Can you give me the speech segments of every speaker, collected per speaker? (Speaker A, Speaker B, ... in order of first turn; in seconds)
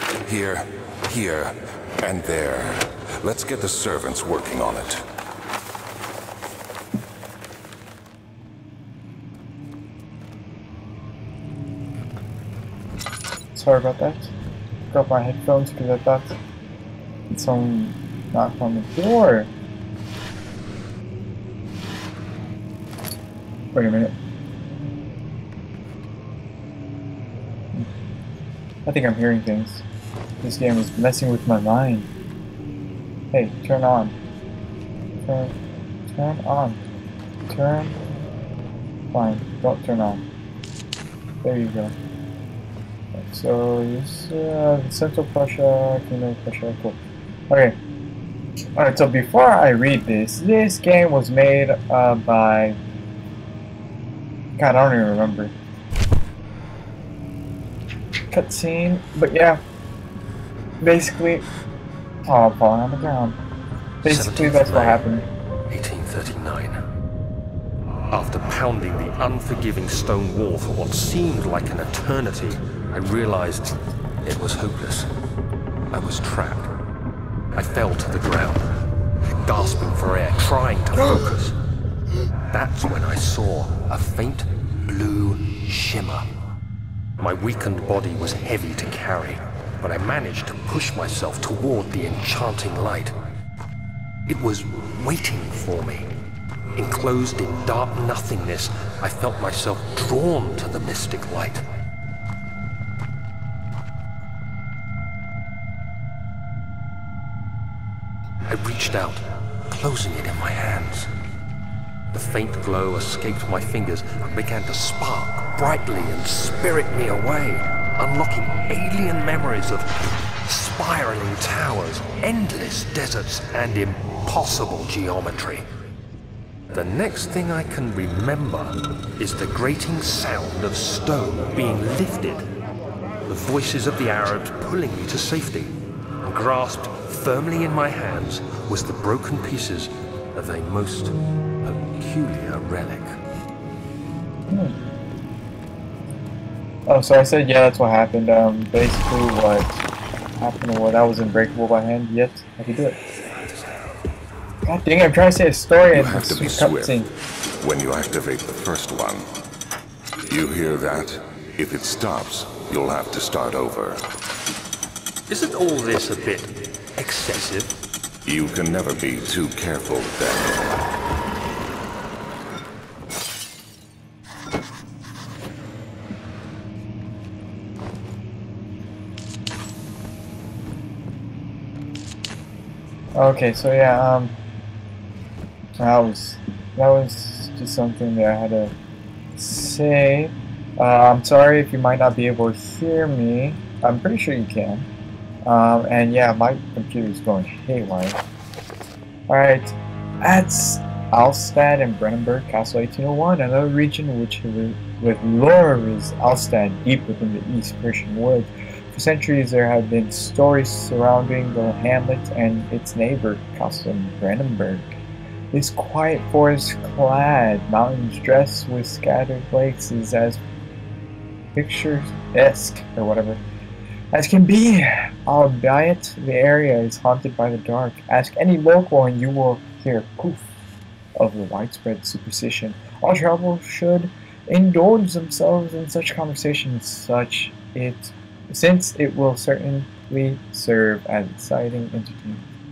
Speaker A: 0.2-5.0, 155.9-157.0, 157.6-159.2, 160.3-164.0, 168.2-170.8
Speaker B: 13.5-14.3, 14.9-16.4, 17.3-19.5, 23.7-24.1, 28.9-29.8, 30.4-32.1, 33.3-34.1, 35.2-35.5, 36.1-36.8, 37.5-38.0, 39.1-40.2, 41.4-41.9, 43.1-47.8, 48.8-52.8, 54.6-55.5, 58.3-59.6, 60.8-61.4, 62.3-63.4, 64.0-65.2, 144.5-144.7, 146.9-149.8, 150.4-153.0, 154.7-157.1, 183.1-184.3, 185.8-188.7, 189.3-194.9, 195.4-198.2, 199.3-214.9, 215.5-220.4, 221.5-223.4, 224.1-230.5, 231.2-242.4
Speaker C: 64.0-65.0, 65.7-66.8, 68.1-75.1, 75.9-76.7, 77.5-78.7, 79.4-81.5, 82.5-86.2, 87.2-93.1, 94.3-96.1, 96.8-101.6, 108.5-111.1, 112.1-119.9, 120.4-125.6, 126.7-132.4, 133.3-135.7, 136.2-143.2, 165.3-167.8